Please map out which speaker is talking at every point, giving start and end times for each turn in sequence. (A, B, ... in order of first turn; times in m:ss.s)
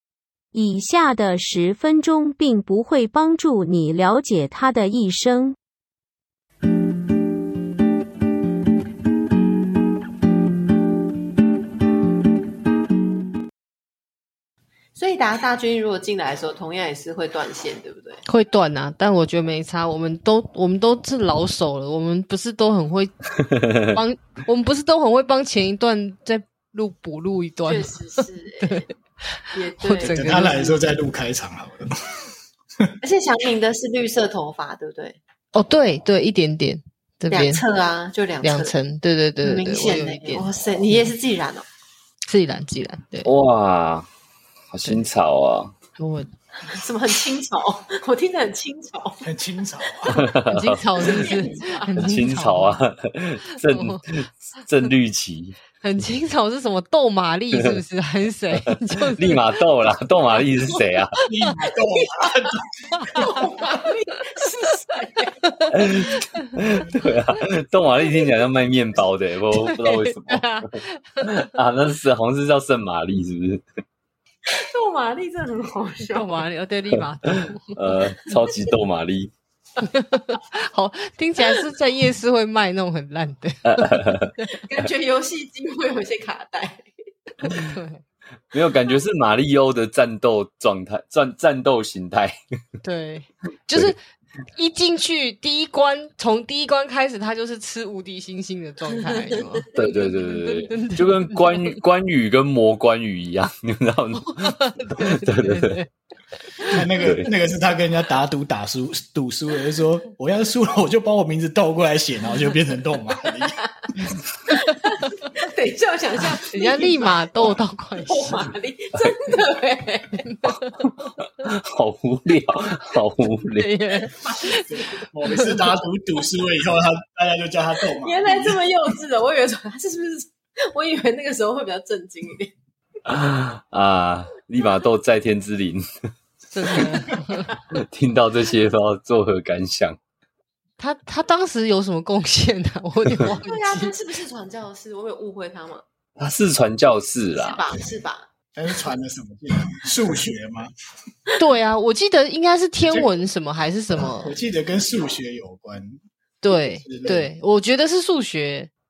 0:00.5-0:05.6 A
0:15.0-0:18.2 B
0:18.3-0:23.1 C
0:23.4-0:23.8 D
0:23.8-0:28.8 C
0:27.6-0:28.8 B
0:29.4-0:30.8 C
0:29.5-0:30.2 B
0:30.0-0:31.9 E
0:33.0-0:35.2 B
0:35.5-0:37.6 C
0:37.3-0:38.7 B
0:38.4-0:40.5 C
0:39.4-0:41.6 B
0:42.3-0:43.3 C
0:43.2-0:44.1 D
0:44.7-0:45.8 D
0:46.0-0:46.3 C
0:46.8-0:49.2 B
0:49.2-0:50.1 E
0:50.1-0:50.8 D
0:50.5-0:52.8 C
0:51.0-0:51.9 B
0:51.9-0:55.6 D
0:53.6-0:54.0 C
0:55.8-0:59.6 C
0:57.5-0:57.8 D
0:58.5-1:01.2 D
1:01.3-1:03.0 E
1:01.9-1:02.5 B
1:03.1-1:05.3 B
1:05.4-1:06.4 C
1:05.7-1:13.6 D
1:09.5-1:11.3 C
1:14.5-1:16.4 B
1:16.1-1:18.1 C
1:17.4-1:19.3 D
1:19.8-1:24.5 C
1:23.8-1:24.3 D
1:24.6-1:26.8 B
1:27.4-1:28.0 C
1:28.5-1:32.4 D
1:32.8-1:34.0 C
1:33.7-1:33.9 D
1:34.5-1:41.8 C
1:39.7-1:45.8 D
1:44.2-1:45.9 C
1:46.7-1:53.6 E
1:46.7-1:47.3 D
1:54.5-1:57.5 B
1:56.5-1:58.5 C
1:58.0-2:00.2 B
2:00.2-2:00.9 C
2:01.4-2:03.8 D
2:03.6-2:04.6 C
2:04.0-2:04.6 B
2:04.6-2:08.6 E
2:05.3-2:05.6 C
2:08.0-2:12.5 B
2:13.0-2:15.8 D
2:16.5-2:17.5 C
2:17.7-2:20.0 D
2:20.8-2:23.9 C
2:23.4-2:25.8 B
2:26.2-2:27.7 D
2:27.3-2:28.3 B
2:28.5-2:30.7 E
2:31.4-2:34.4 C
2:32.9-2:33.2 E
2:34.0-2:36.0 E
2:36.4-2:38.7 C
2:36.5-2:37.3 E